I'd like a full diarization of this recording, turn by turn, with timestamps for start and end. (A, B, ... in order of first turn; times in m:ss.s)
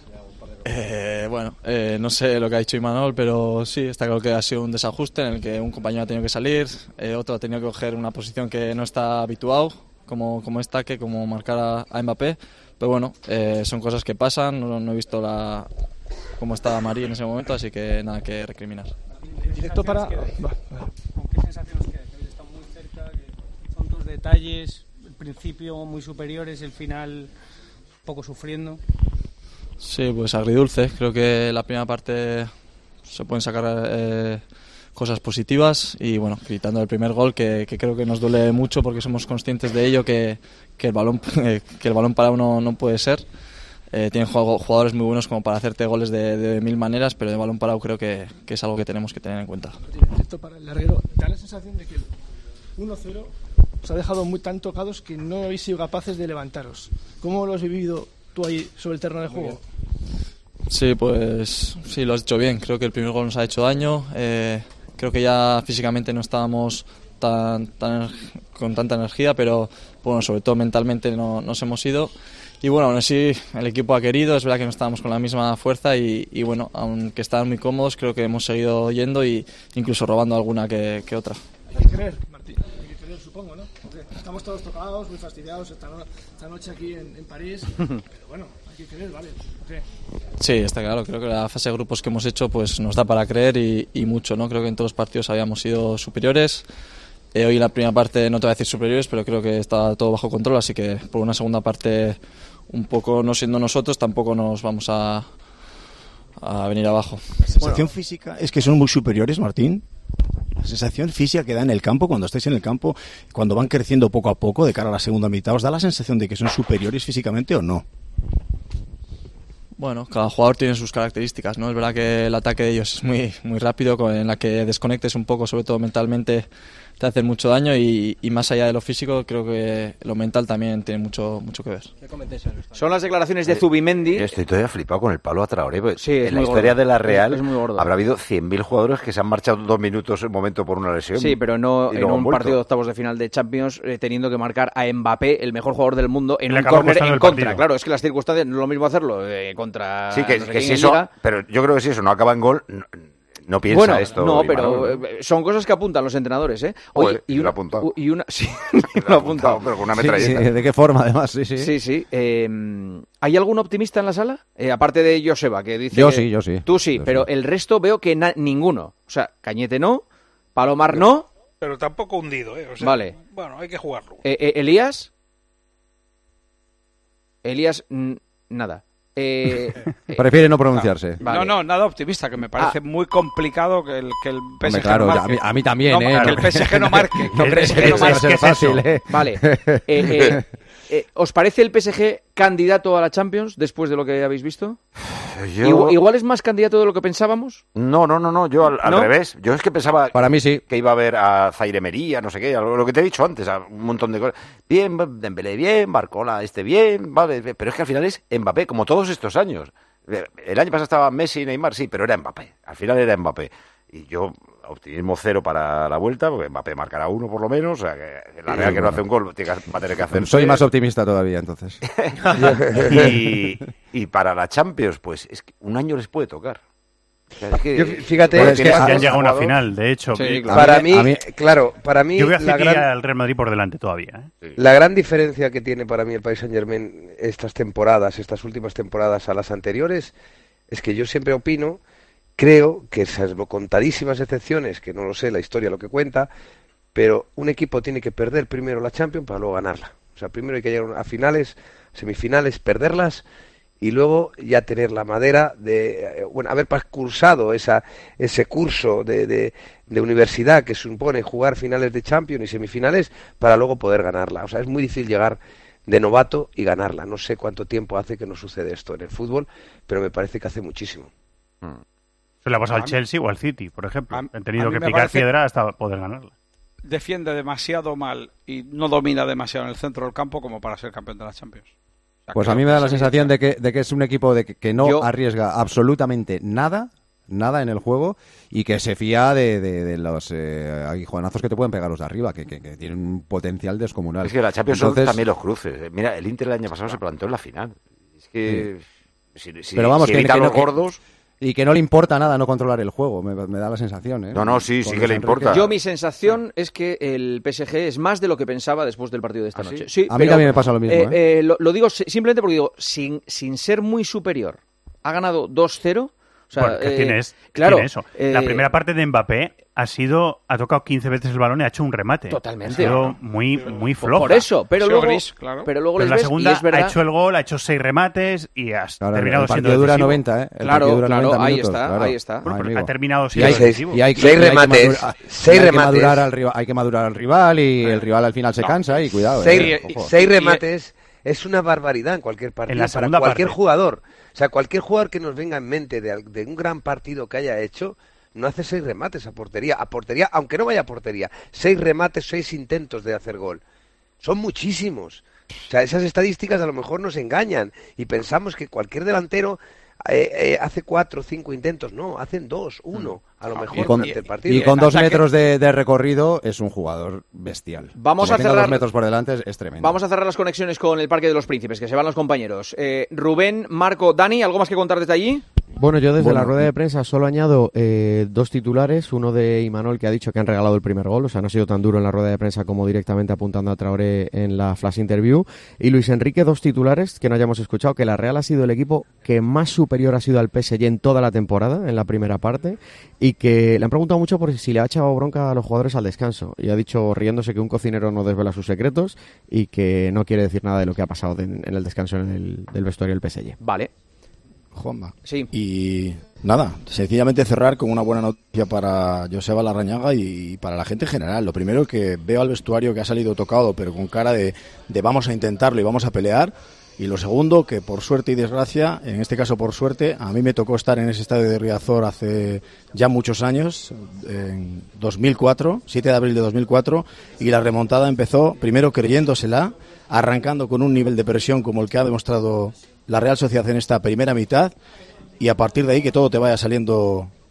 0:00.6-0:15.7 A
0:16.4-0:18.9 A
0:19.4-0:20.9 B
0:29.8-0:43.3 A
0:43.9-0:49.8 A
0:49.8-0:52.2 B
0:52.8-0:59.6 B
1:00.7-1:21.4 A
1:21.7-1:29.8 B
1:30.4-1:36.6 A
1:37.3-1:45.3 A
1:46.4-1:47.2 A
1:47.6-1:49.8 C
1:50.6-1:57.8 C
1:59.8-2:11.9 A
2:12.7-2:14.3 D
2:13.5-2:22.6 E
2:16.0-2:17.9 D
2:21.2-2:31.1 D
2:26.5-2:27.5 F
2:30.1-2:35.0 E
2:33.7-2:40.4 D
2:36.9-2:37.9 E
2:38.9-2:40.5 E
2:40.0-2:41.7 G
2:41.6-2:50.0 D
2:45.9-2:47.2 G
2:50.5-2:51.3 D
2:51.6-2:54.2 H
2:52.8-2:53.1 D
2:54.2-2:55.1 D
2:57.4-3:01.6 D
3:00.1-3:01.2 G
3:01.2-3:08.4 I
3:04.6-3:10.4 G
3:07.5-3:08.2 D
3:09.1-3:14.8 D
3:15.2-3:16.0 E
3:15.6-3:17.6 D
3:17.7-3:40.6 E
3:18.8-3:19.1 D
3:20.1-3:20.6 G
3:38.5-3:39.0 G
3:40.1-3:41.8 G
3:41.8-3:42.2 E
3:42.9-3:46.6 E
3:47.4-3:49.6 E
3:47.7-3:49.0 J
3:48.4-3:49.1 G
3:48.7-3:50.6 F
3:50.2-3:50.5 D
3:50.5-3:51.2 G
3:50.5-3:52.8 J
3:52.2-3:54.3 F
3:54.6-4:00.1 J
4:00.7-4:01.8 J
4:02.4-4:06.3 J
4:06.9-4:13.2 J
4:13.8-4:31.1 J
4:32.4-4:36.3 F
4:32.7-4:33.0 I
4:34.1-4:35.3 I
4:36.8-4:41.7 I
4:42.3-4:43.1 I
4:42.3-4:55.2 G
4:54.2-5:01.0 E
4:59.8-5:00.8 G
5:01.4-5:05.6 G
5:04.3-5:05.6 E
5:05.5-5:18.7 D
5:09.5-5:09.9 E
5:10.1-5:11.2 G
5:16.5-5:24.5 F
5:22.3-5:23.0 D
5:24.1-5:26.9 D
5:24.8-5:25.7 I
5:25.9-5:30.2 F
5:29.0-5:40.1 G
5:30.6-5:32.5 D
5:32.4-5:34.2 F
5:33.4-5:36.3 J
5:39.3-5:53.6 J
5:39.6-5:40.6 D
5:42.7-5:43.6 F
5:54.2-6:04.9 J
6:03.6-6:10.0 G
6:03.7-6:05.2 D
6:08.0-6:08.8 D
6:09.8-6:15.4 D
6:15.8-6:43.6 K
6:16.2-6:16.7 G
6:43.6-6:43.9 D
6:44.7-7:14.7 C
6:45.2-6:45.5 D
7:15.4-7:17.3 C